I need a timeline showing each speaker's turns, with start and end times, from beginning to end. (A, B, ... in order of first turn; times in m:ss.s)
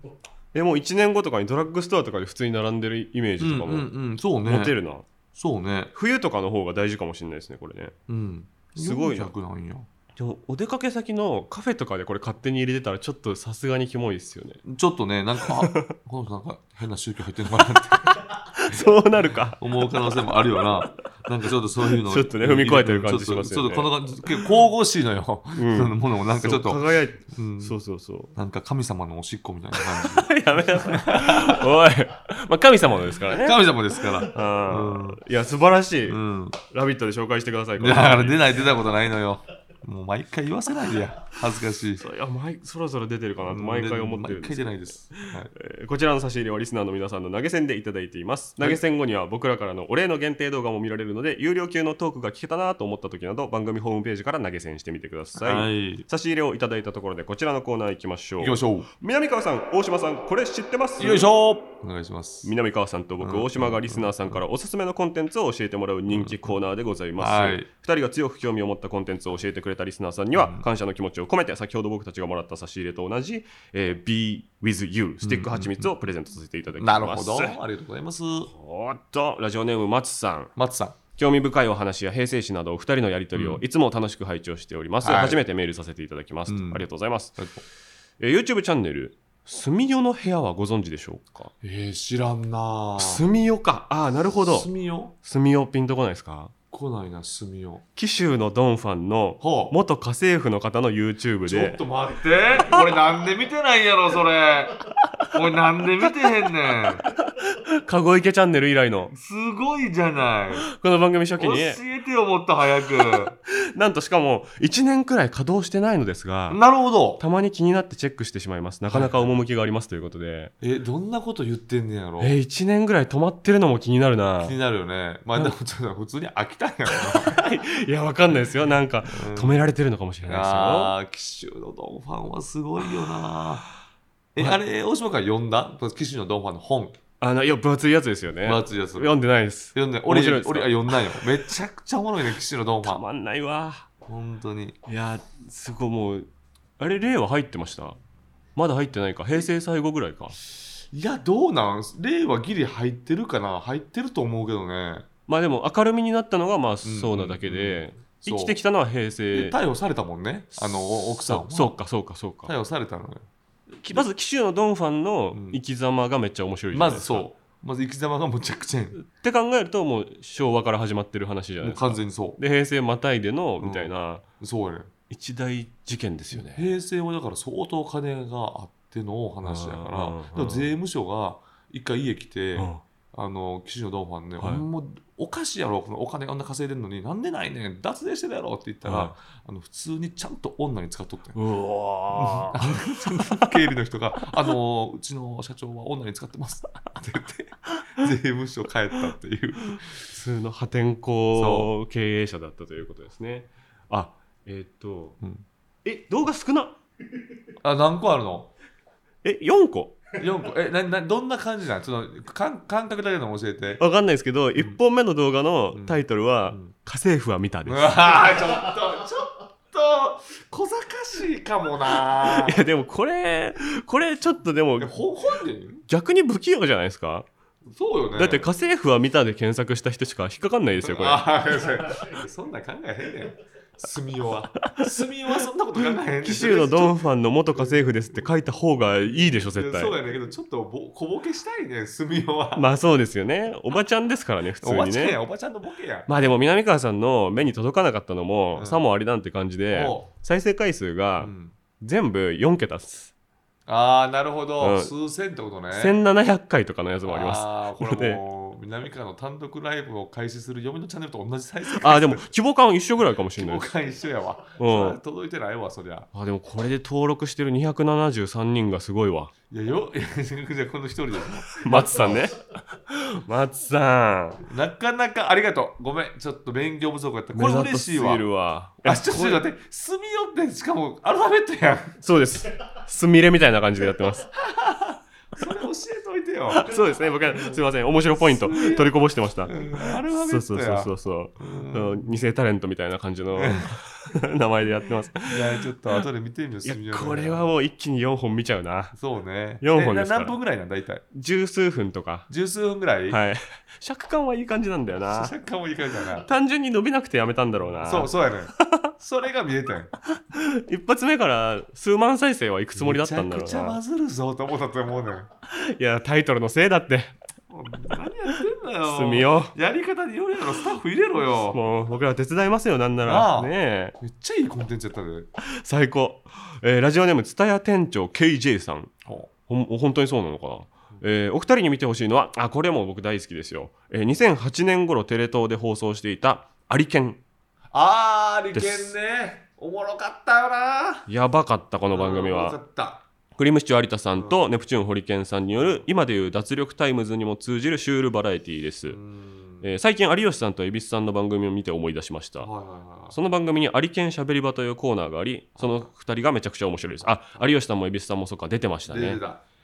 0:00.5-0:03.9 A
0:03.4-0:04.8 B
0:04.4-0:05.0 A
0:05.3-0:05.9 B
0:05.9-0:08.0 A
0:08.1-0:09.9 B
0:08.8-0:09.3 A
0:10.2-0:14.6 A
0:14.6-0:18.8 B
0:15.4-0:15.9 A
0:17.8-0:20.9 A
0:19.6-0:27.7 B
0:21.8-0:24.4 A
0:25.5-0:28.3 A
0:28.3-0:31.6 B
0:29.7-0:38.6 A
0:33.3-0:35.2 B
0:36.1-0:36.6 B
0:37.8-0:42.0 B
0:42.0-1:01.3 A
0:43.4-0:45.5 B
0:55.4-0:56.0 B
0:58.4-0:58.9 B
1:01.0-1:02.5 B
1:02.4-1:17.6 A
1:03.2-1:04.4 B
1:06.1-1:06.6 B
1:07.2-1:07.7 B
1:10.3-1:10.6 B
1:15.2-1:15.9 B
1:16.8-1:18.5 B
1:18.5-1:20.5 A
1:20.6-1:21.0 B
1:21.1-1:27.4 A
1:23.3-1:23.6 B
1:25.0-1:25.4 B
1:26.5-1:27.6 B
1:28.2-1:31.5 A
1:31.6-1:33.2 B
1:33.0-1:34.7 A
1:34.4-1:35.1 B
1:35.2-1:36.5 A
1:36.7-1:37.8 B
1:38.0-1:41.8 A
1:39.4-1:39.7 B
1:41.4-1:44.8 B
1:45.3-1:47.0 B
1:46.0-1:49.1 A
1:49.1-1:50.7 B
1:50.6-1:51.8 A
1:51.4-1:53.3 B
1:53.0-1:56.6 A
1:56.5-1:57.2 B
1:57.2-2:00.5 A
1:58.9-1:59.3 B
2:00.6-2:02.4 B
2:02.2-2:04.6 A
2:04.4-2:07.4 B
2:06.9-2:10.9 A
2:09.1-2:09.5 B
2:10.3-2:13.6 B
2:14.3-2:17.0 B
2:17.2-2:21.4 A
2:18.4-2:19.1 B
2:19.7-2:23.0 B
2:22.8-2:23.9 A
2:24.1-2:24.8 B
2:24.8-2:28.0 A
2:28.6-2:30.4 A
2:30.9-2:35.0 B
2:35.3-2:39.6 A
2:36.8-2:38.6 B
2:39.3-2:41.8 B
2:40.5-2:42.5 A
2:42.4-2:43.2 B
2:43.7-2:47.2 A
2:45.3-2:45.6 B
2:46.7-2:49.0 B
2:49.0-2:54.2 A
2:51.6-2:52.4 B
2:53.6-2:54.9 B
2:55.1-2:56.7 A
2:56.3-3:11.4 B
2:59.4-3:00.7 A
3:02.6-3:02.8 A
3:04.4-3:04.6 A
3:08.8-3:09.1 A
3:11.3-3:13.6 A
3:12.1-3:20.1 B
3:19.8-3:25.2 A
3:21.3-3:21.7 B
3:25.8-3:26.8 A
3:27.6-3:28.5 B
3:29.2-3:30.0 A
3:30.2-3:33.8 B
3:33.8-3:38.4 A
3:35.7-3:36.7 B
3:37.6-3:42.6 B
3:42.1-3:45.0 A
3:44.8-3:45.8 B
3:45.9-3:47.3 A
3:47.6-3:48.4 B
3:48.1-3:51.3 A
3:50.8-3:57.8 B
3:56.2-4:00.0 A
3:59.4-4:02.6 B
4:02.5-4:05.2 A
4:04.6-4:06.1 B
4:06.1-4:13.1 A
4:08.5-4:08.8 B
4:09.7-4:10.1 B
4:11.2-4:11.5 B
4:13.7-4:16.0 B
4:14.6-4:14.9 A
4:15.7-4:18.2 A
4:17.0-4:22.3 B
4:21.7-4:23.7 A
4:23.4-4:26.1 B
4:24.6-4:25.0 A
4:26.1-4:29.3 A
4:29.5-4:32.3 B
4:31.6-4:34.4 A
4:34.4-4:38.2 B
4:37.3-4:39.4 A
4:38.8-4:42.0 B
4:42.0-4:44.3 A
4:44.2-4:46.7 B
4:46.5-4:56.0 A
4:48.2-4:52.1 B
4:53.3-4:53.8 B
4:55.3-4:57.4 B
4:56.6-4:59.0 A
4:58.9-5:01.0 B
4:59.6-5:00.4 A
5:01.1-5:02.3 A
5:02.3-5:03.2 B
5:03.1-5:05.3 A
5:05.1-5:06.2 B
5:06.1-5:08.9 A
5:07.8-5:09.9 B
5:10.1-5:13.8 A
5:12.7-5:15.3 B
5:15.5-5:17.1 A
5:17.5-5:21.6 B
5:18.8-5:19.5 A
5:21.2-5:23.9 A
5:23.0-5:25.3 B
5:25.4-5:28.9 A
5:29.0-5:29.3 B
5:29.5-5:37.2 A
5:37.7-5:41.1 B
5:38.5-5:38.9 A
5:41.1-5:42.6 A
5:41.9-5:43.0 B
5:43.4-5:49.0 A
5:45.6-5:45.8 B
5:48.9-5:49.7 B
5:49.6-5:52.5 A
5:52.4-5:53.2 B
5:53.1-5:59.2 A
5:55.6-5:55.8 B
5:58.9-5:59.4 B